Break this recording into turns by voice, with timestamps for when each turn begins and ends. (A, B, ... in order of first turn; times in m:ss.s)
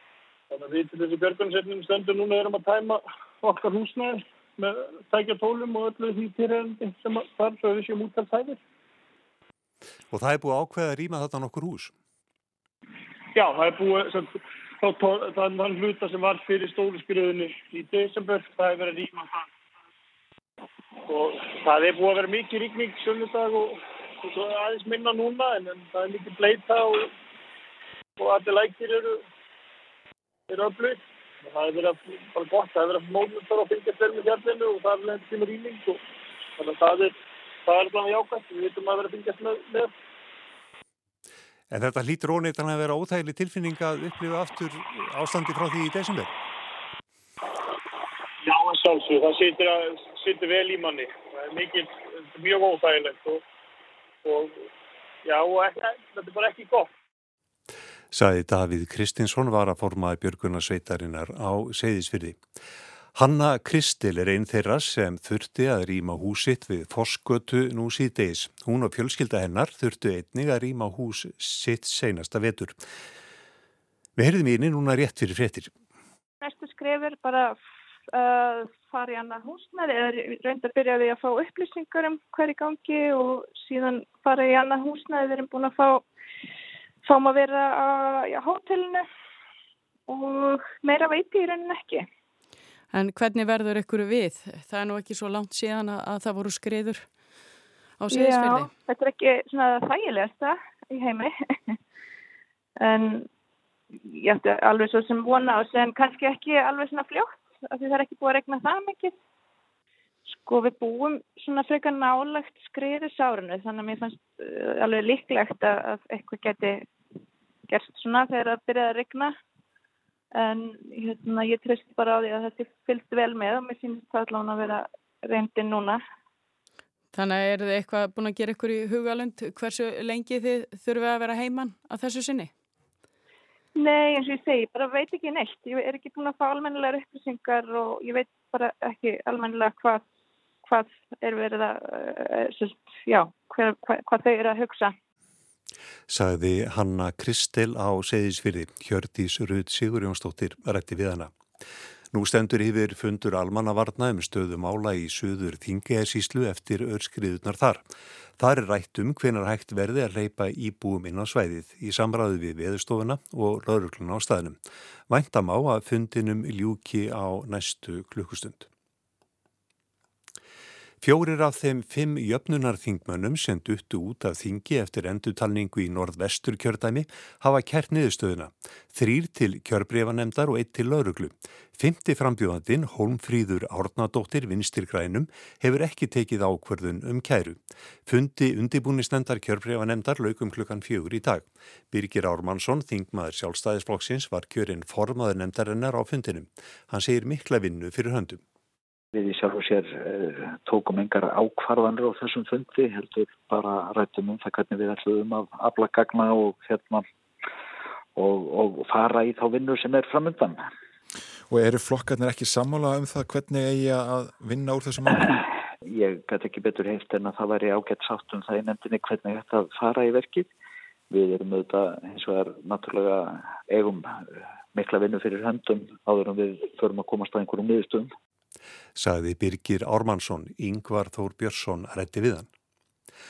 0:00.5-0:08.6 A
0:10.1-0:11.9 B
0:13.3-0:19.5 A
0:21.0-0:27.1 A
0:28.2-0:29.2 A
0:30.5-0:36.0 A
0:36.6-0:37.1 A
0:37.6-0:39.9 A
0:41.7-0:46.3 B
0:48.4-0:53.4 A
0:54.2-0:54.6 A
0:55.2-0:56.9 A
0:58.1-1:02.4 B
1:03.1-1:12.8 B
1:14.2-1:15.7 B
1:16.4-1:17.6 C
1:18.1-1:26.0 C
1:27.0-1:29.1 C
1:30.1-1:32.0 C
1:32.9-1:37.2 D
1:38.0-1:38.7 D
1:38.1-1:41.8 C
1:42.8-1:43.3 C
1:44.0-1:49.1 C
1:50.3-1:56.8 C
1:57.7-1:59.3 C
2:00.3-2:06.0 C
2:07.1-2:12.5 D
2:13.8-2:20.0 C
2:20.6-2:24.9 C
2:26.1-2:31.3 B
2:32.1-2:37.8 B
2:38.4-2:44.6 B
2:45.1-2:48.7 B
2:51.0-3:18.4 B
3:19.1-3:27.0 E
3:28.2-3:30.6 E
3:31.5-3:35.2 F
3:35.9-3:40.5 E
3:41.1-3:48.1 E
3:49.0-3:52.5 B